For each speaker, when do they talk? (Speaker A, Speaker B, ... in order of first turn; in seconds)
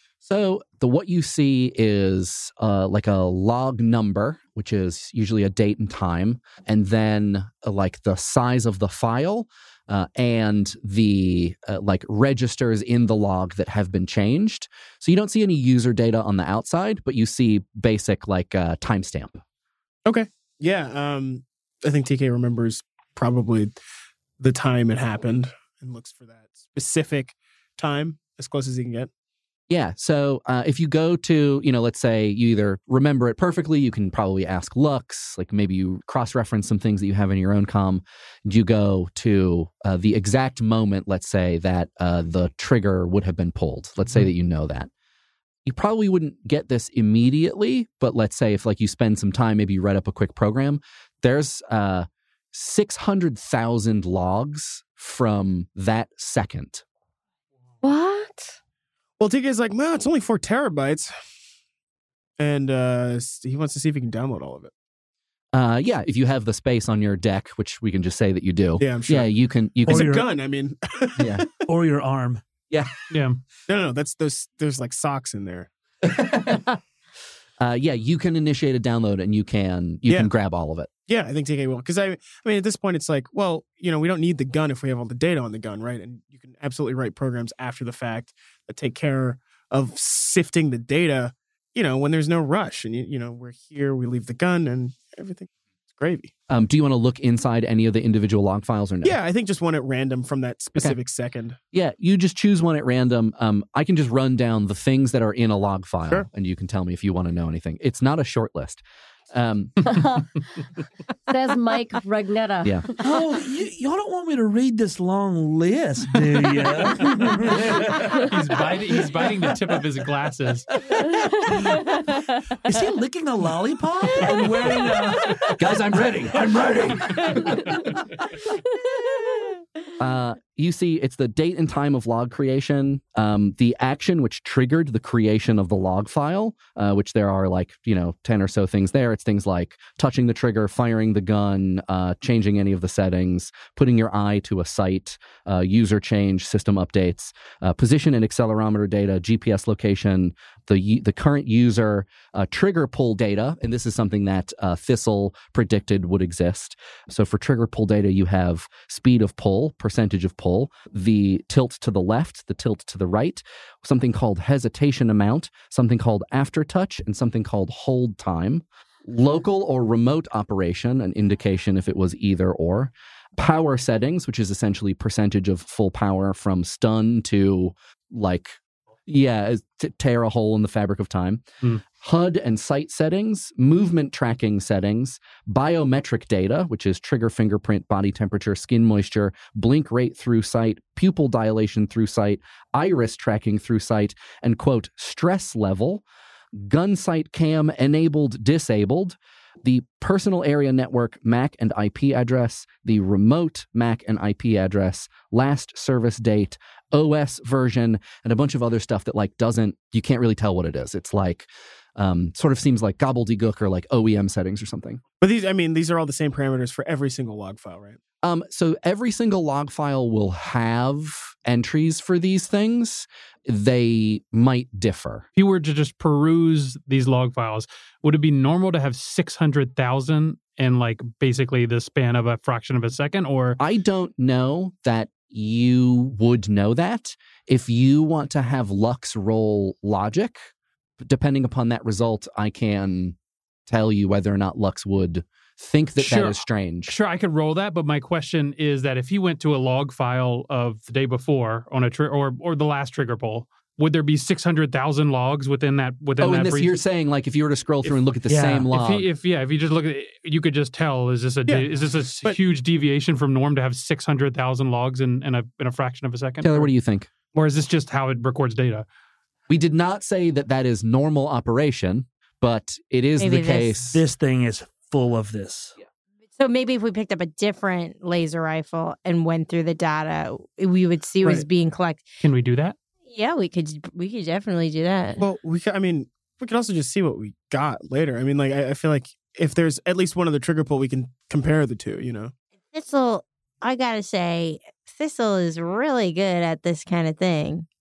Speaker A: 0.2-19.4, 29.7-44.9, 45.6-56.9, 65.5-70.2, 71.2-71.5, 76.0-76.8, 77.6-80.9, 96.5-99.2, 101.7-109.9, 112.6-112.9, 125.5-127.8, 130.0-181.4, 182.0-196.0, 196.6-215.0, 218.2-225.3, 233.6-246.9, 256.2-259.1, 266.4-267.1, 269.5-274.0
Speaker B: 20.1-23.8, 24.4-29.1, 59.2-61.2, 62.4-64.7, 68.8-69.3, 69.9-71.6, 73.7-75.7, 81.1-96.3, 99.0-101.6, 215.2-218.0, 261.5-262.4, 285.2-292.3
Speaker C: 57.8-58.6, 109.9-110.4, 111.3-113.0
Speaker D: 69.9-70.3, 71.7-72.4, 113.0-118.1, 122.7-125.4, 258.3-258.6, 273.9-275.8
Speaker E: 73.1-73.4, 118.1-120.7, 124.7-125.4, 127.2-127.5, 225.4-233.6, 246.0-256.7, 258.3-266.7, 267.3-268.9, 282.2-282.8
Speaker F: 273.2-273.8, 276.4-282.1, 283.1-285.2, 292.7-297.7